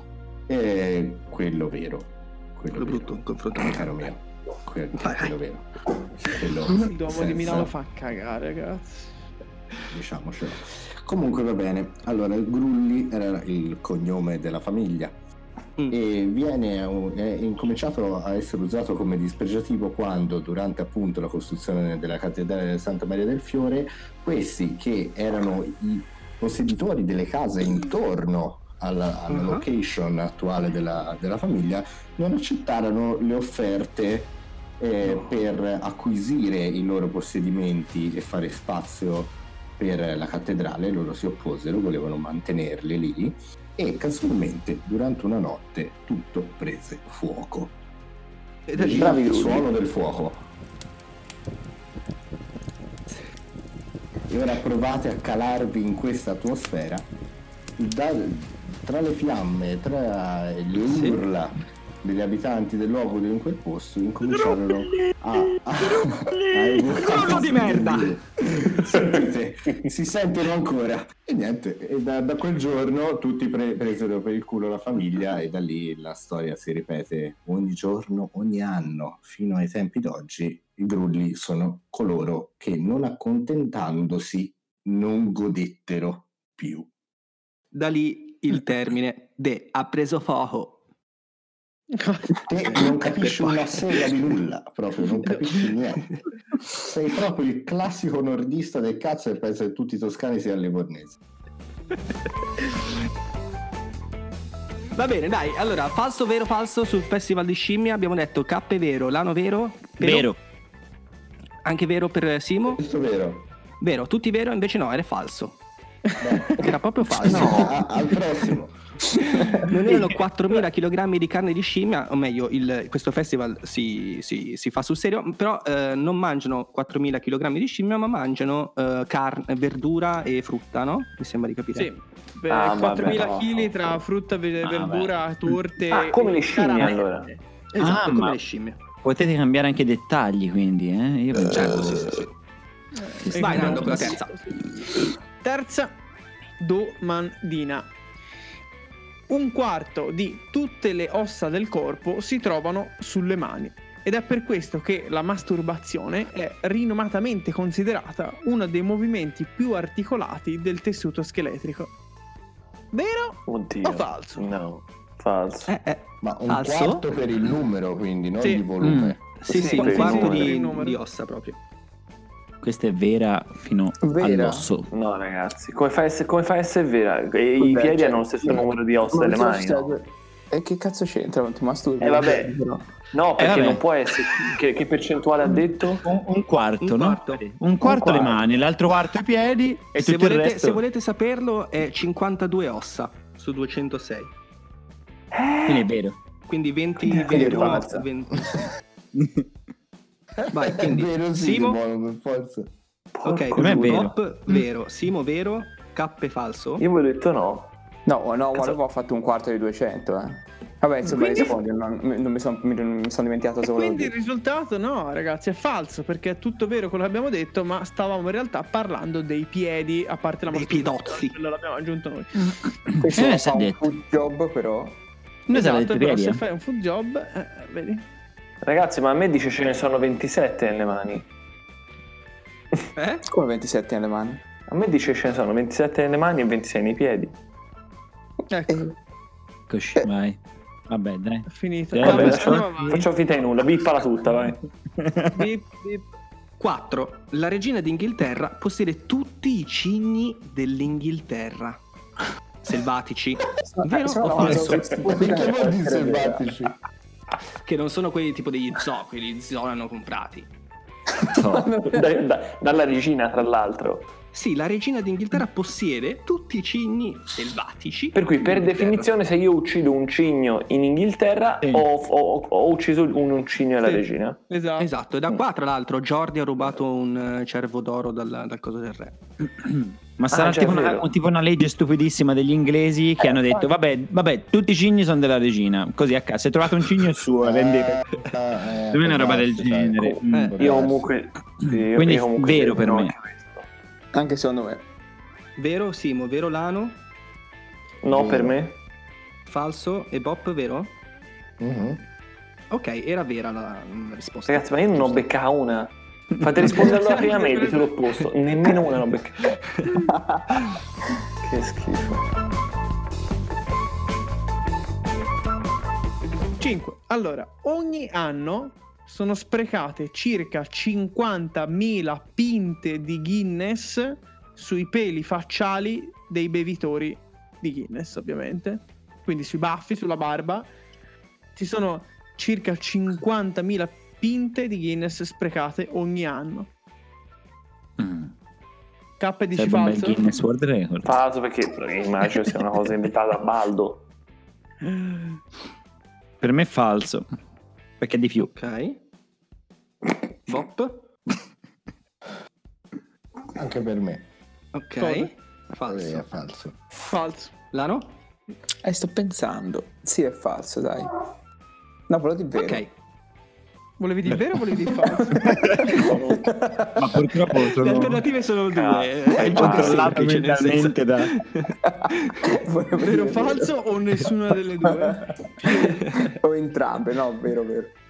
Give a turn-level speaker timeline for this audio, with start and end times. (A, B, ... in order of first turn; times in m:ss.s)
0:00.5-0:07.7 A
0:02.7-0:04.1 B
0:05.0-0:05.4 B
0:06.7-0:09.1 C
0:09.9-0:15.2 A
0:15.9-0:47.8 A
0:29.3-0:29.6 B
0:35.0-0:35.4 B
0:48.7-0:49.2 B
0:48.7-0:50.4 A
0:48.9-0:49.7 D
0:54.3-0:57.1 A
0:57.8-1:26.9 A
1:00.9-1:01.2 B
1:04.4-1:05.1 B
1:05.8-1:08.2 B
1:27.7-1:30.8 B
1:31.9-1:32.3 C
1:32.5-1:41.2 A
1:32.7-1:34.2 B
1:44.9-1:50.3 B
1:50.0-1:50.4 E
1:51.6-1:52.8 B
1:52.7-1:53.5 A
1:53.8-1:55.6 B
1:56.2-1:58.8 A
1:56.6-1:57.9 B
1:59.6-2:11.9 B
2:11.8-2:17.4 C
2:12.5-2:14.0 D
2:14.6-2:15.1 E
2:15.9-2:17.3 D
2:17.7-2:18.8 B
2:17.8-2:18.4 E
2:19.0-2:22.2 E
2:21.5-2:22.2 B
2:23.2-2:24.2 E
2:23.3-2:24.4 C
2:23.4-2:24.4 B
2:25.4-2:26.0 C
2:26.6-2:27.9 C
2:29.3-2:41.9 C
2:42.9-2:44.5 C
2:43.5-2:45.7 D
2:45.7-2:47.0 B
2:46.2-2:49.2 A
2:48.8-2:49.2 E
2:49.4-2:51.6 B
2:49.5-2:51.0 C
2:49.5-2:50.5 D
2:52.6-2:54.9 E
2:54.0-2:54.7 F
2:54.9-3:00.0 D
2:57.6-3:02.9 F
3:02.0-3:02.6 D
3:03.1-3:06.0 D
3:03.4-3:03.8 E
3:06.0-3:10.8 E
3:06.8-3:07.4 B
3:07.8-3:08.4 D
3:10.0-3:14.3 B
3:15.3-3:15.9 B
3:15.7-3:16.2 E
3:16.4-3:18.6 B
3:17.1-3:18.0 D
3:19.2-3:19.4 E
3:20.5-3:21.8 B
3:20.6-3:22.7 A
3:23.1-3:24.1 D
3:23.2-3:26.8 B
3:23.6-3:24.2 E
3:26.8-3:27.7 D
3:28.1-3:34.1 F
3:31.1-3:31.6 D
3:31.1-3:31.5 C
3:33.7-3:42.6 C
3:40.5-3:41.4 B
3:42.9-3:43.8 E
3:43.0-3:45.0 F
3:45.5-3:46.4 E
3:45.5-3:48.0 C
3:48.6-3:51.3 D
3:53.0-3:53.2 B
3:53.3-3:54.4 F
3:54.7-3:57.3 D
3:58.5-3:58.8 C
3:58.7-3:58.9 F
3:59.7-4:00.4 E
4:00.9-4:02.9 E
4:01.5-4:03.1 C
4:02.0-4:04.6 D
4:05.0-4:05.4 E
4:05.3-4:06.0 C
4:06.6-4:11.8 B
4:12.6-4:15.0 B
4:13.6-4:16.5 F
4:15.0-4:16.8 A
4:17.6-4:20.5 B
4:21.3-4:21.7 E
4:21.4-4:24.1 D
4:21.7-4:22.0 F
4:24.3-4:29.1 B
4:28.1-4:34.4 D
4:33.8-4:34.9 C
4:34.8-4:39.2 B
4:39.6-4:48.0 E
4:40.3-4:41.1 D
4:47.4-4:51.1 A
4:48.9-4:50.6 E
4:50.6-4:53.7 D
4:51.6-4:53.1 E
4:54.1-4:54.8 F
4:55.6-4:57.0 B
4:58.0-4:58.8 D
4:58.1-4:58.6 A
4:59.5-5:00.9 B
5:01.6-5:02.0 A
5:02.7-5:05.3 B
5:04.5-5:09.5 D
5:07.1-5:07.8 C
5:11.4-5:12.2 D
5:16.6-5:30.7 C
5:31.6-5:36.7 C
5:38.0-5:38.3 E
5:39.2-5:40.3 C
5:39.6-5:41.2 E
5:41.0-5:44.0 D
5:46.4-5:47.3 E
5:48.0-5:48.5 E
5:48.6-5:49.0 B
5:50.5-5:51.1 B
5:53.6-5:54.2 A
5:54.8-5:56.3 B
5:55.0-5:55.3 C
5:55.8-5:56.8 A
5:56.9-5:57.5 C
5:57.7-5:58.2 B
5:58.8-6:01.1 F
6:02.1-6:02.9 F
6:02.6-6:02.9 B
6:04.0-6:05.8 C
6:05.5-6:05.9 E
6:05.9-6:06.5 D
6:06.5-6:07.2 F
6:07.0-6:08.3 E
6:07.8-6:12.4 B
6:08.7-6:10.2 D
6:09.5-6:11.3 E
6:12.0-6:13.8 F
6:13.0-6:15.8 C
6:15.0-6:18.0 F